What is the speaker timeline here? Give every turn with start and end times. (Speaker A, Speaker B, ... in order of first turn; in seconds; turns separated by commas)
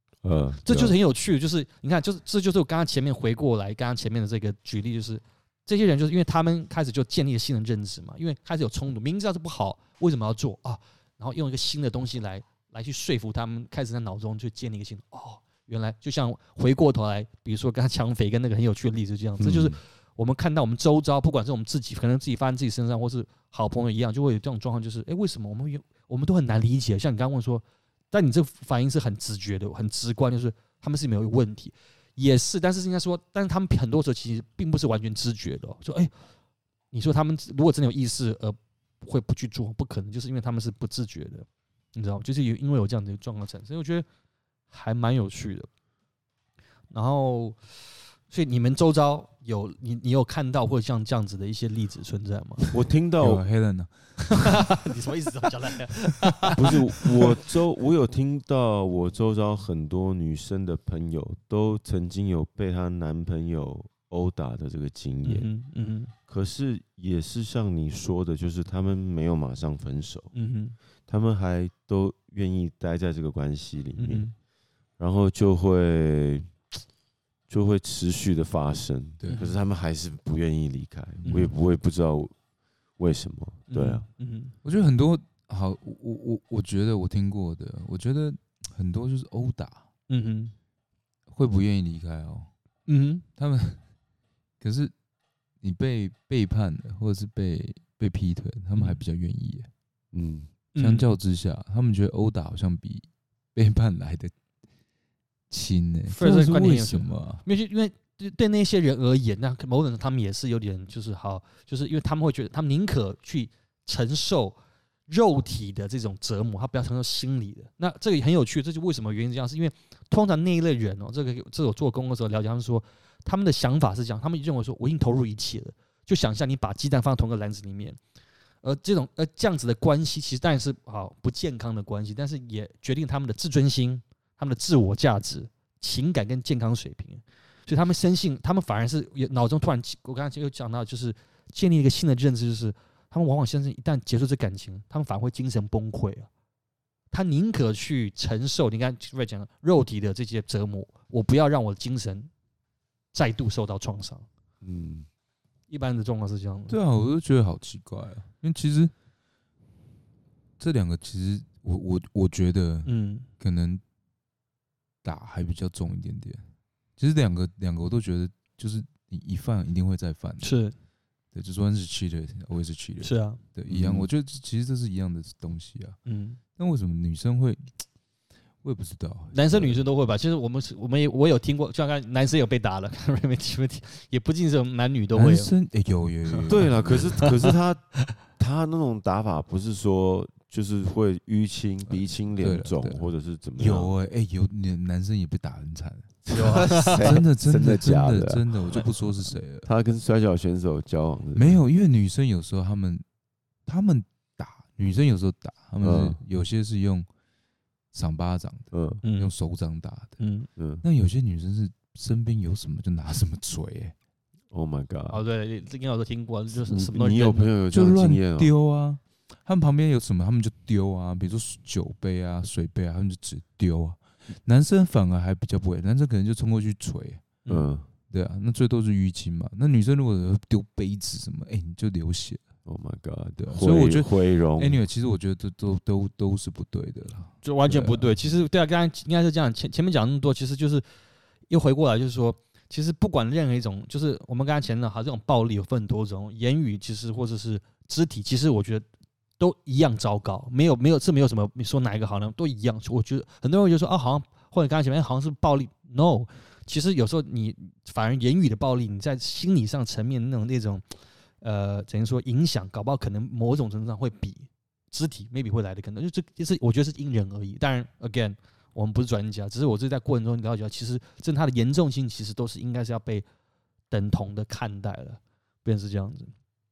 Speaker A: 0.2-1.0, Speaker B: 0.7-36.1, Speaker A: 19.4-19.8, Speaker B: 36.9-44.1, Speaker B: 44.7-45.7, Speaker B: 46.9-47.6, Speaker B: 48.3-52.7, Speaker A: 52.7-53.4, Speaker C: 53.2-54.7, Speaker B: 54.3-57.4, Speaker A: 56.6-65.5, Speaker B: 65.2-66.1, Speaker A: 66.3-70.3, Speaker B: 70.3-70.8, Speaker A: 71.1-74.3, Speaker B: 74.0-74.3, Speaker A: 75.0-76.5, Speaker A: 77.5-82.3, Speaker B: 79.3-79.5, Speaker B: 81.2-81.5, Speaker A: 83.0-84.0, Speaker B: 83.7-84.5, Speaker C: 84.6-89.8, Speaker B: 90.1-90.5, Speaker C: 91.3-92.5, Speaker B: 92.9-93.2, Speaker C: 93.4-93.8, Speaker C: 94.6-94.9, Speaker C: 95.6-99.7, Speaker A: 100.1-100.5, Speaker B: 100.7-101.1, Speaker C: 100.8-104.3, Speaker C: 105.5-107.4, Speaker B: 106.1-128.0, Speaker B: 128.6-146.3, Speaker B: 147.1-152.3, Speaker B: 153.1-154.3, Speaker A: 154.6-155.1, Speaker B: 155.7-156.8, Speaker C: 156.7-158.9, Speaker C: 160.6-163.8, Speaker B: 162.8-163.3, Speaker C: 165.0-166.4, Speaker C: 167.0-170.6, Speaker B: 170.4-170.7, Speaker C: 171.3-176.0, Speaker B: 173.0-173.4, Speaker A: 173.7-174.1, Speaker B: 176.1-176.4, Speaker C: 176.6-177.7, Speaker C: 178.6-179.8, Speaker B: 179.3-185.5, Speaker C: 185.2-187.1, Speaker B: 186.3-186.5, Speaker A: 186.5-193.9, Speaker C: 192.4-196.2, Speaker A: 196.3-201.6, Speaker B: 196.3-197.0, Speaker C: 196.8-199.7, Speaker C: 201.3-203.0, Speaker C: 203.7-207.1, Speaker A: 205.8-206.2, Speaker C: 207.9-210.2, Speaker A: 208.7-209.0, Speaker B: 209.0-209.3, Speaker B: 210.2-210.5, Speaker A: 210.6-210.8, Speaker C: 210.8-213.9, Speaker A: 214.5-215.2, Speaker B: 215.1-217.5, Speaker A: 216.7-218.5, Speaker C: 217.7-227.4, Speaker A: 227.5-227.9, Speaker C: 228.1-232.4, Speaker A: 232.7-234.8, Speaker C: 233.4-238.2, Speaker B: 237.4-240.8, Speaker B: 241.5-248.8, Speaker B: 249.4-260.8, Speaker B: 261.4-273.2, Speaker B: 273.9-276.3